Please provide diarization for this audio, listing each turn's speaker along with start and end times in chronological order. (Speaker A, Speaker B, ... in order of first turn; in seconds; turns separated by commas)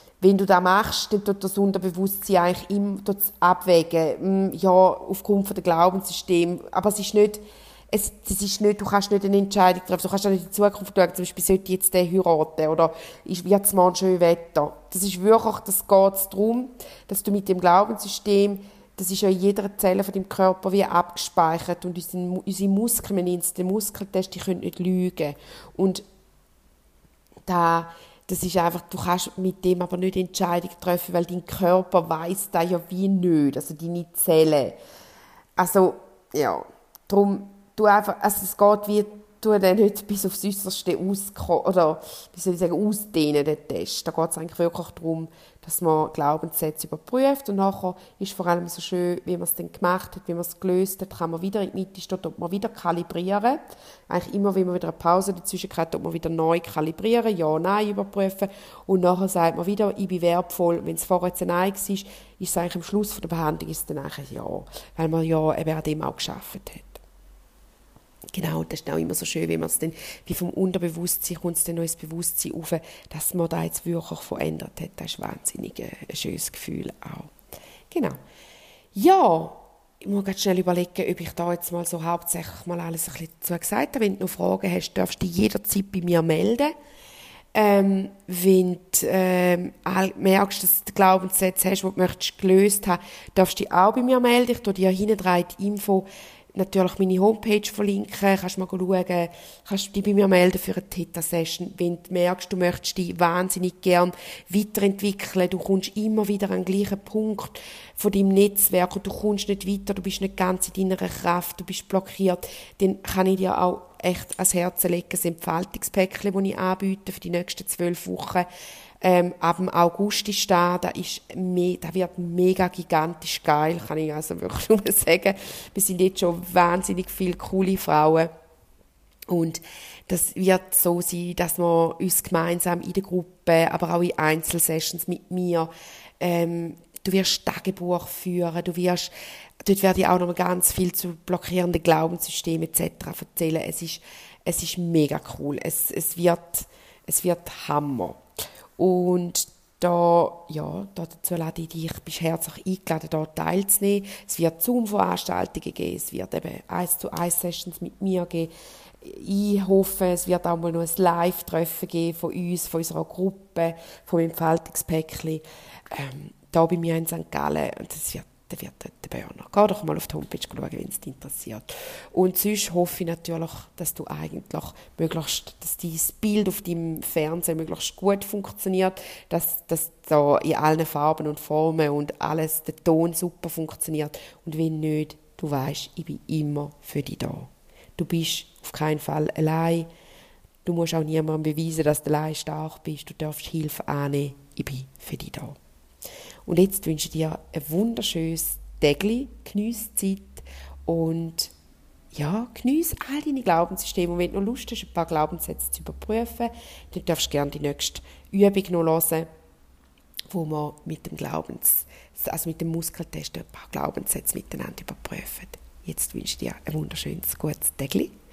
Speaker A: 0.2-26.0, Speaker A: 27.5-34.8, Speaker A: 35.6-67.0, Speaker A: 68.3-77.3, Speaker A: 77.9-78.2, Speaker A: 79.0-86.7, Speaker A: 87.5-118.5, Speaker A: 119.0-128.3, Speaker A: 129.3-139.1, Speaker A: 139.6-148.2, Speaker A: 148.8-158.5, Speaker A: 159.0-189.9, Speaker A: 190.7-195.6, Speaker A: 196.5-201.5, Speaker A: 202.1-209.3, Speaker A: 210.3-218.1